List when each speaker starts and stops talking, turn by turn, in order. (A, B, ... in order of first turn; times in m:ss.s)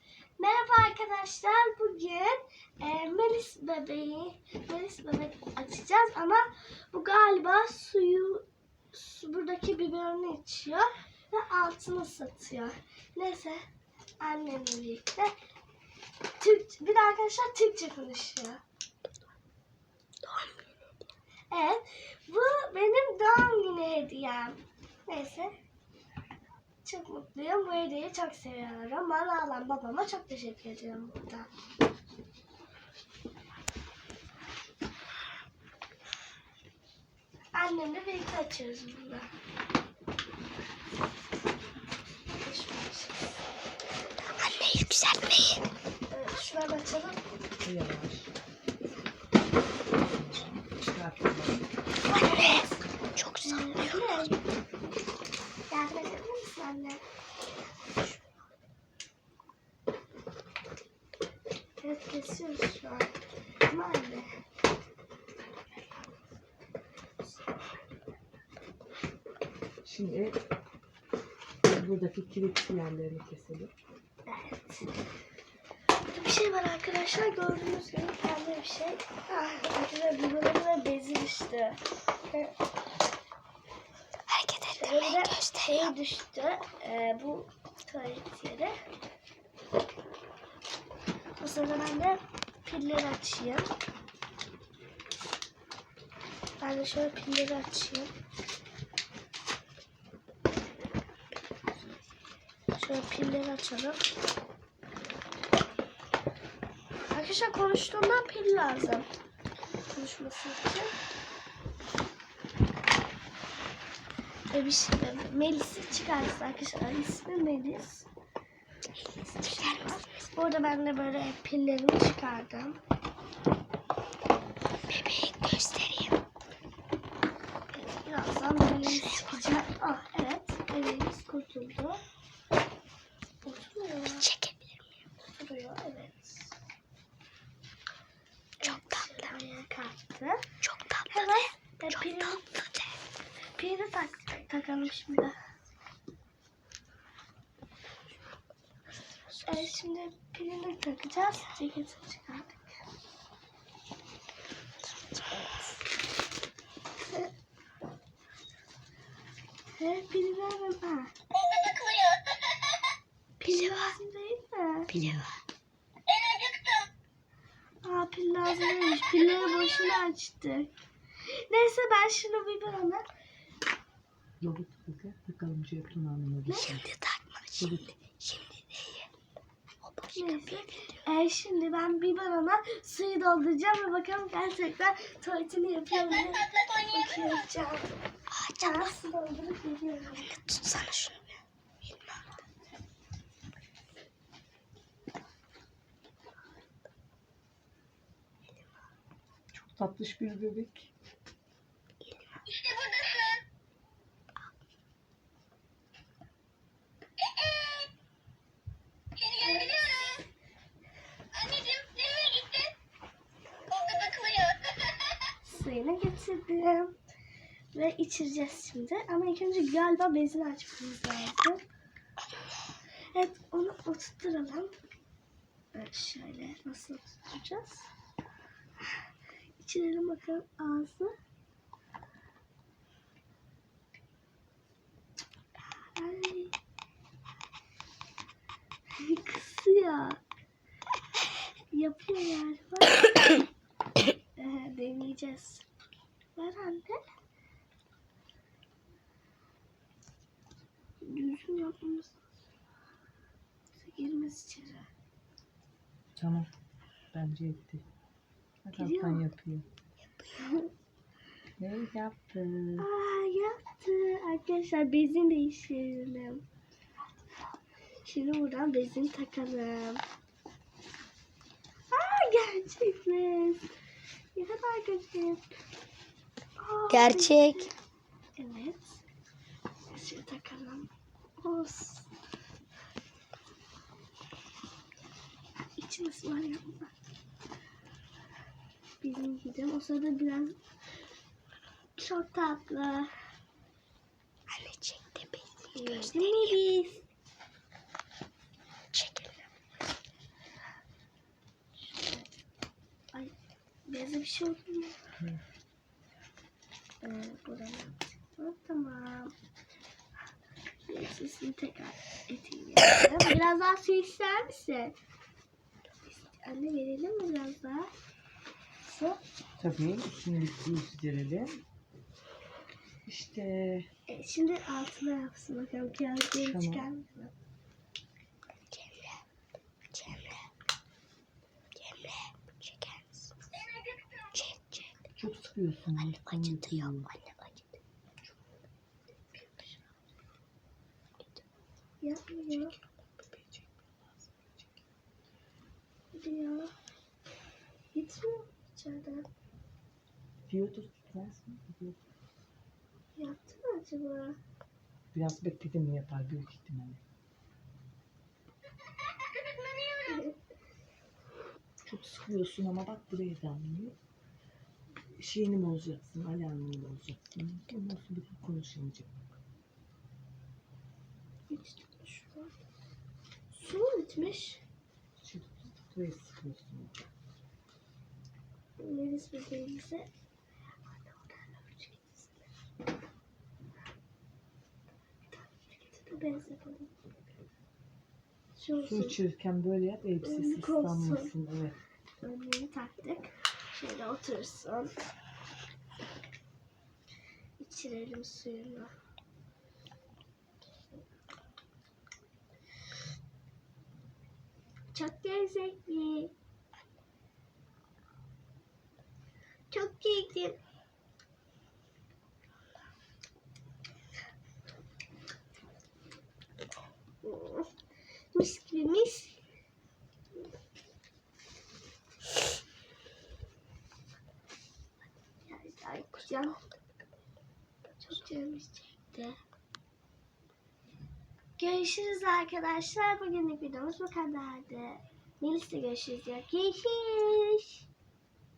0:00.4-0:13.6 A
0:14.2-0:15.3 A
0:16.4-0:18.6 A
0:21.5-0:25.5 A
0:26.8-0:31.5 A
0:37.5-0:39.3 A
0:42.3-0:43.4 A
0:44.4-0:45.6 B
0:46.1-0:47.2 A
0:47.6-0:48.3 C
0:50.0-0:51.7 C
0:52.1-0:52.7 A
0:53.1-0:54.3 B
0:53.4-0:54.4 A
0:55.7-0:57.0 A
1:01.8-1:04.3 A
1:09.8-1:10.4 C
1:11.6-1:13.7 C
1:14.3-1:14.9 A
1:16.1-1:22.5 A
1:24.3-1:25.9 B
1:24.8-1:28.7 A
1:31.4-1:33.7 A
1:36.6-1:38.1 A
1:42.8-1:44.1 A
1:47.1-1:49.1 A
1:49.9-1:50.9 A
1:54.5-1:58.1 A
1:59.0-2:00.0 B
1:59.4-2:02.8 A
2:04.9-2:06.2 B
2:07.7-2:12.0 A
2:08.8-2:09.4 B
2:13.4-2:14.3 A
2:14.2-2:14.8 B
2:15.3-2:16.5 A
2:18.6-2:20.5 A
2:18.6-2:19.2 B
2:20.6-2:22.8 B
2:21.1-2:22.6 A
2:23.6-2:25.4 A
2:29.4-2:32.8 A
2:39.8-2:41.1 A
2:43.4-2:43.9 B
2:43.4-2:44.9 A
2:44.9-2:45.3 C
2:45.0-2:45.3 B
2:47.8-2:50.7 A
2:51.3-2:53.0 A
2:54.4-2:56.9 C
2:56.5-2:59.1 B
2:57.6-2:57.9 C
2:59.8-3:01.0 B
3:00.1-3:07.9 A
3:08.3-3:08.9 B
3:08.6-3:10.4 A
3:10.2-3:11.3 B
3:19.5-3:20.9 C
3:35.4-3:37.0 A
3:37.7-3:41.6 A
3:43.1-3:44.8 A
3:45.7-3:47.9 A
3:49.6-3:51.1 A
3:55.9-3:56.5 A
3:59.0-4:00.2 A
4:01.7-4:03.4 A
4:04.4-4:05.6 A
4:06.3-4:07.1 A
4:11.0-4:12.1 A
4:13.8-4:14.9 A
4:16.2-4:16.5 C
4:17.1-4:17.8 C
4:18.6-4:19.7 C
4:18.8-4:19.2 A
4:20.4-4:20.7 A
4:21.6-4:22.9 C
4:22.8-4:26.4 A
4:28.0-4:30.0 A
4:31.9-4:33.7 A
4:34.3-4:35.5 A
4:36.6-4:37.7 A
4:36.9-4:37.7 B
4:38.4-4:39.0 A
4:39.9-4:42.1 A
4:45.8-4:46.9 A
4:49.0-4:50.6 A
4:52.0-4:53.1 A
4:54.5-4:56.5 B
4:55.7-4:57.0 A
4:58.9-4:59.4 B
5:01.8-5:02.3 A
5:03.8-5:05.0 A
5:07.0-5:09.3 A
5:10.9-5:14.9 A
5:16.0-5:17.9 A
5:18.8-5:19.2 A
5:19.6-5:21.6 C
5:23.0-5:23.9 C
5:24.1-5:27.3 A
5:26.4-5:26.8 C
5:28.7-5:29.1 B
5:29.9-5:30.4 B
5:31.8-5:33.3 B
5:34.3-5:34.9 B
5:35.1-5:37.1 C
5:36.0-5:37.6 B
5:39.3-5:39.8 A
5:42.0-5:42.8 A
5:46.1-5:46.7 A
5:47.9-5:49.3 A
5:50.5-5:52.0 C
5:53.2-5:54.4 A
5:55.1-5:57.0 C
6:01.8-6:03.9 C
6:05.2-6:09.1 C
6:11.5-6:12.5 A
6:13.5-6:14.6 A
6:15.2-6:17.0 C
6:18.8-6:20.1 A
6:21.0-6:22.4 A
6:25.9-6:26.9 A
6:28.6-6:29.2 A
6:28.8-6:31.8 C
6:30.2-6:31.3 A
6:32.2-6:34.9 A
6:37.6-6:38.9 A
6:44.9-6:46.3 A
6:49.7-6:50.6 A
6:57.2-6:57.7 A
6:58.3-6:59.4 A
7:05.4-7:06.6 A
7:08.0-7:09.4 A
7:11.6-7:17.8 A